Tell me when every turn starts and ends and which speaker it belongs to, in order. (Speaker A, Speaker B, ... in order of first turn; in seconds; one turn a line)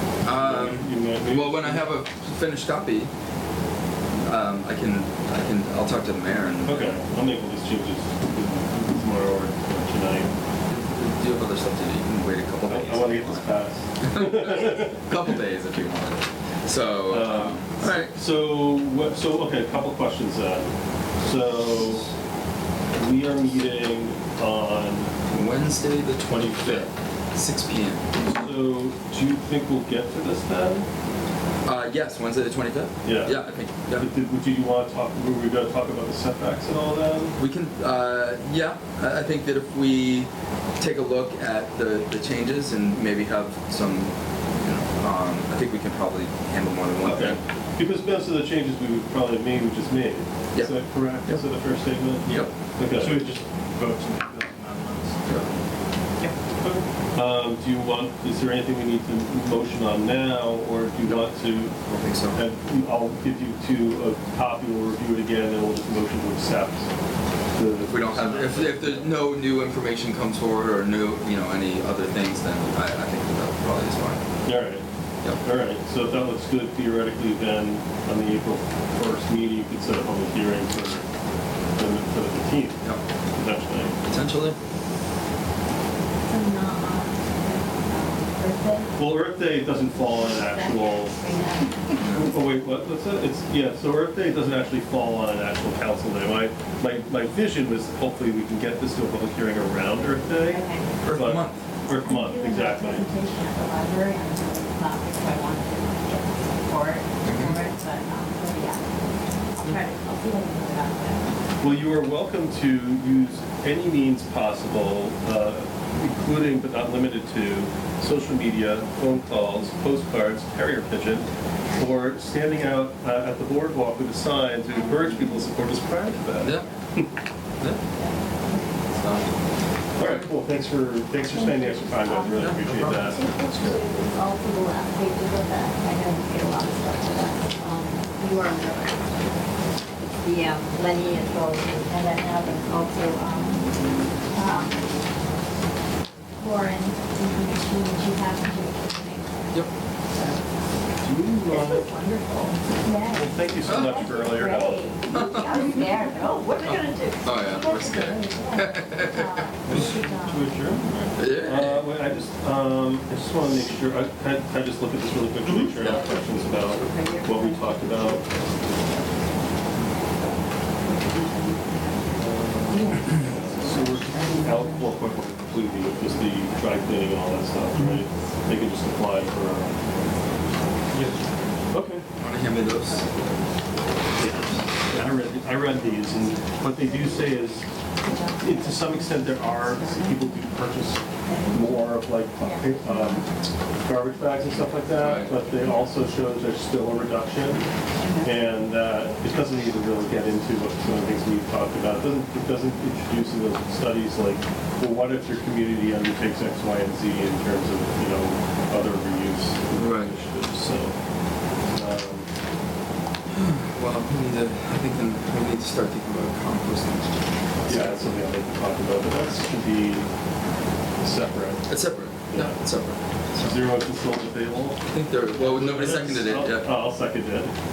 Speaker A: 0.2-3.1
Speaker B: 0.3-1.9
Speaker A: 4.2-7.0
Speaker B: 6.7-10.3
Speaker A: 10.7-13.5
Speaker B: 12.7-14.8
Speaker A: 14.1-18.1
Speaker B: 17.1-22.1
Speaker B: 22.9-25.1
Speaker A: 25.3-28.1
Speaker B: 28.2-30.9
Speaker A: 31.6-34.1
Speaker B: 33.0-33.4
Speaker B: 34.0-37.4
Speaker A: 37.4-47.4
Speaker B: 47.0-53.2
Speaker A: 52.3-52.5
Speaker C: 52.9-55.6
Speaker B: 56.6-61.7
Speaker A: 61.0-62.4
Speaker B: 62.3-66.9
Speaker B: 67.5-69.0
Speaker A: 67.8-74.2
Speaker B: 74.5-74.8
Speaker B: 75.4-81.1
Speaker B: 81.8-82.8
Speaker B: 83.3-84.0
Speaker A: 84.1-84.6
Speaker D: 86.2-89.0
Speaker B: 89.0-91.2
Speaker D: 90.1-92.2
Speaker A: 92.0-92.3
Speaker B: 92.1-100.6
Speaker D: 100.4-100.9
Speaker A: 101.0-101.6
Speaker B: 101.1-103.1
Speaker D: 102.0-111.3
Speaker A: 107.2-107.6
Speaker B: 111.6-127.1
Speaker D: 124.7-125.5
Speaker A: 126.4-126.7
Speaker D: 126.5-126.8
Speaker D: 127.9-128.9
Speaker A: 128.9-129.3
Speaker B: 130.0-133.3
Speaker D: 131.3-139.4
Speaker A: 132.4-133.7
Speaker D: 140.2-143.7
Speaker D: 144.3-144.9
Speaker D: 146.4-150.4
Speaker B: 151.0-151.9
Speaker D: 151.4-160.5
Speaker B: 153.1-154.9
Speaker A: 153.7-154.1
Speaker A: 155.1-155.6
Speaker A: 157.2-159.8
Speaker C: 159.7-161.1
Speaker A: 161.1-161.9
Speaker B: 161.4-168.2
Speaker D: 165.8-169.4
Speaker D: 170.2-174.9
Speaker B: 172.2-179.8
Speaker C: 180.9-181.2
Speaker C: 181.7-182.0
Speaker A: 182.2-183.1
Speaker B: 184.2-187.7
Speaker D: 186.8-190.4
Speaker B: 188.4-193.3
Speaker D: 191.2-193.4
Speaker B: 193.8-197.7
Speaker A: 194.9-195.3
Speaker D: 198.0-198.4
Speaker B: 198.2-210.9
Speaker A: 209.8-210.1
Speaker B: 211.7-212.3
Speaker A: 213.3-218.1
Speaker B: 217.7-220.1
Speaker B: 221.0-221.6
Speaker A: 221.7-223.7
Speaker B: 222.3-222.6
Speaker B: 223.4-224.8
Speaker A: 224.9-226.7
Speaker B: 225.4-227.5